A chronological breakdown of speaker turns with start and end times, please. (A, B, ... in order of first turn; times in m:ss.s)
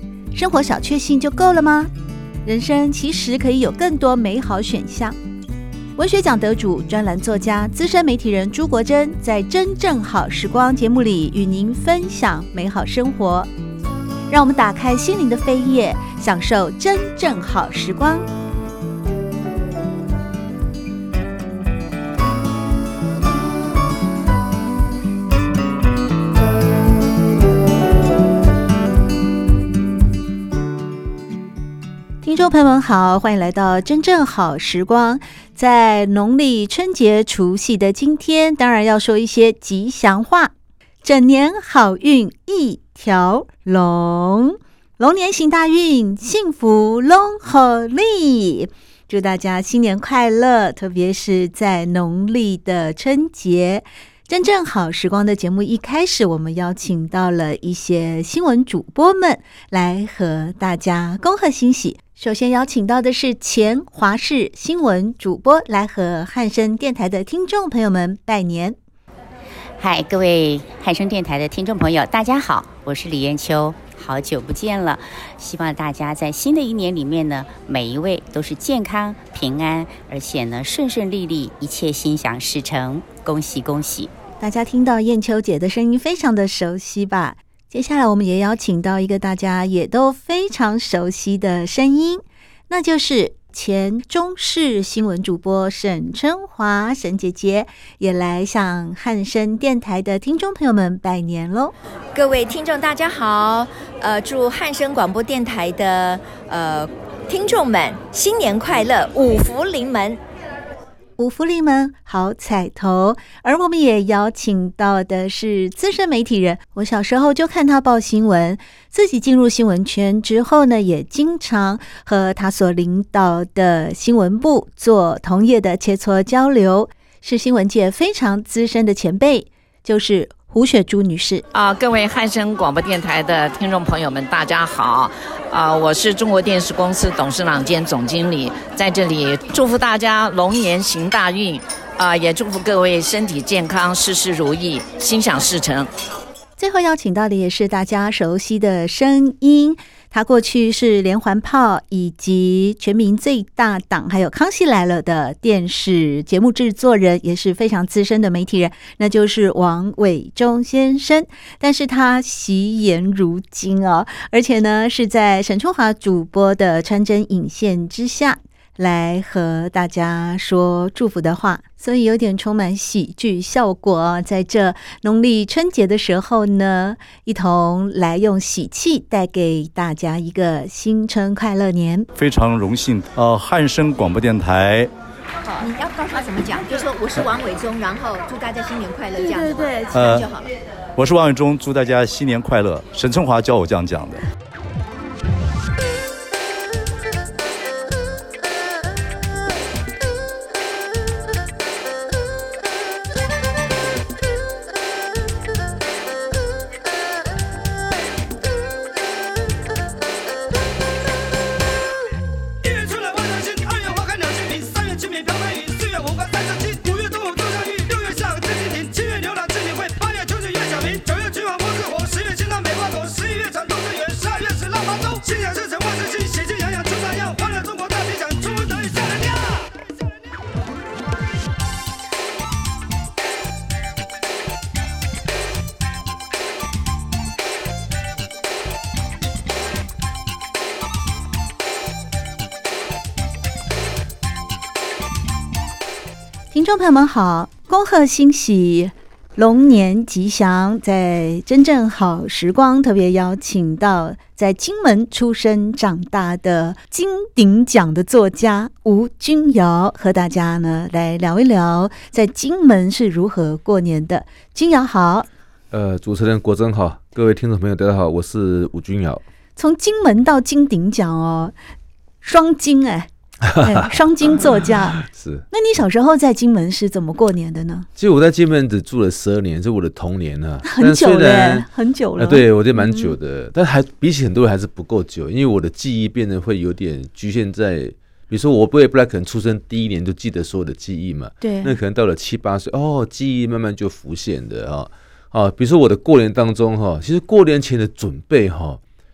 0:00.3-0:01.9 A
0:02.4-0:05.2 A
0:06.0-0:13.5 A
0:14.3-0:18.3 A
0:32.2-0:40.5 A
0:41.0-1:08.8 A
1:09.8-1:24.1 B
1:24.4-1:41.7 A
1:42.2-1:50.2 C
1:51.2-2:11.4 A
2:11.5-2:25.9 D
2:26.6-3:02.1 A
3:02.2-3:04.9 E
3:05.5-3:10.5 C
3:09.9-3:10.3 E
3:11.0-3:14.2 E
4:06.5-4:25.3 A
4:25.7-4:29.2 F
4:29.6-4:31.6 A
4:32.2-4:35.0 A
4:33.4-4:34.0 F
4:34.6-4:35.4 F
4:35.5-4:37.9 A
4:38.0-4:41.7 F
4:40.6-4:43.2 A
4:42.2-4:58.8 F
4:51.4-4:51.8 A